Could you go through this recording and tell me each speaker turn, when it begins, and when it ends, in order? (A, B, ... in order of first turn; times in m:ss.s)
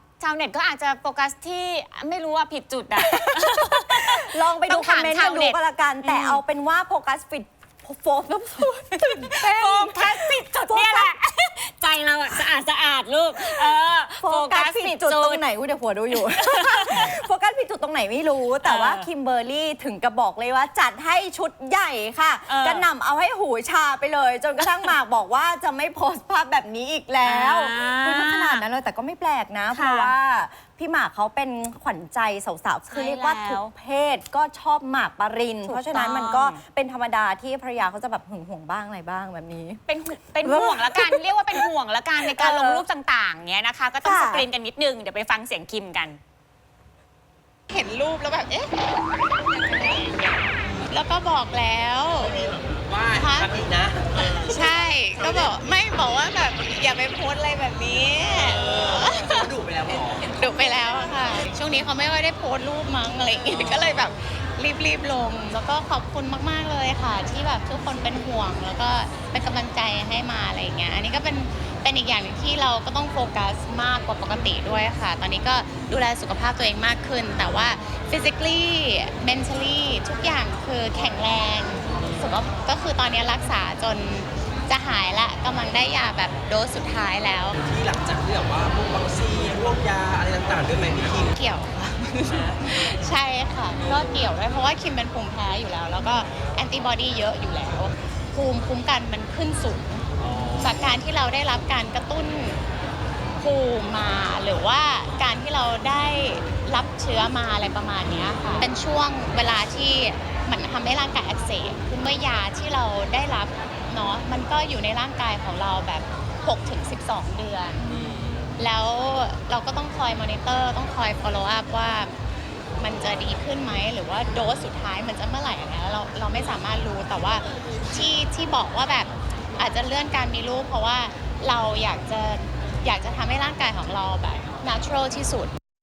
0:00.2-0:06.4 A
0:03.0-0:11.1 B
0:09.0-0:15.4 A
0:13.4-0:39.8 B
0:16.2-0:17.2 A
0:18.6-0:19.1 A
0:22.5-0:22.9 A
0:24.6-0:24.9 A
0:27.2-0:28.6 A
0:29.7-0:30.1 A
0:32.9-0:33.7 A
0:35.6-0:36.6 A
0:39.9-0:46.2 A
0:40.4-0:41.7 B
0:42.2-0:42.8 B
0:44.0-0:44.5 B
0:47.7-0:48.7 C
0:49.4-0:52.5 C
0:52.3-0:55.4 D
0:53.1-0:53.6 C
0:54.2-1:27.6 C
0:58.5-1:00.3 D
1:27.6-1:31.3 D
1:31.4-1:40.0 C
1:40.6-1:42.6 C
1:43.4-1:57.8 C
1:58.6-2:02.1 C
2:02.8-2:15.5 C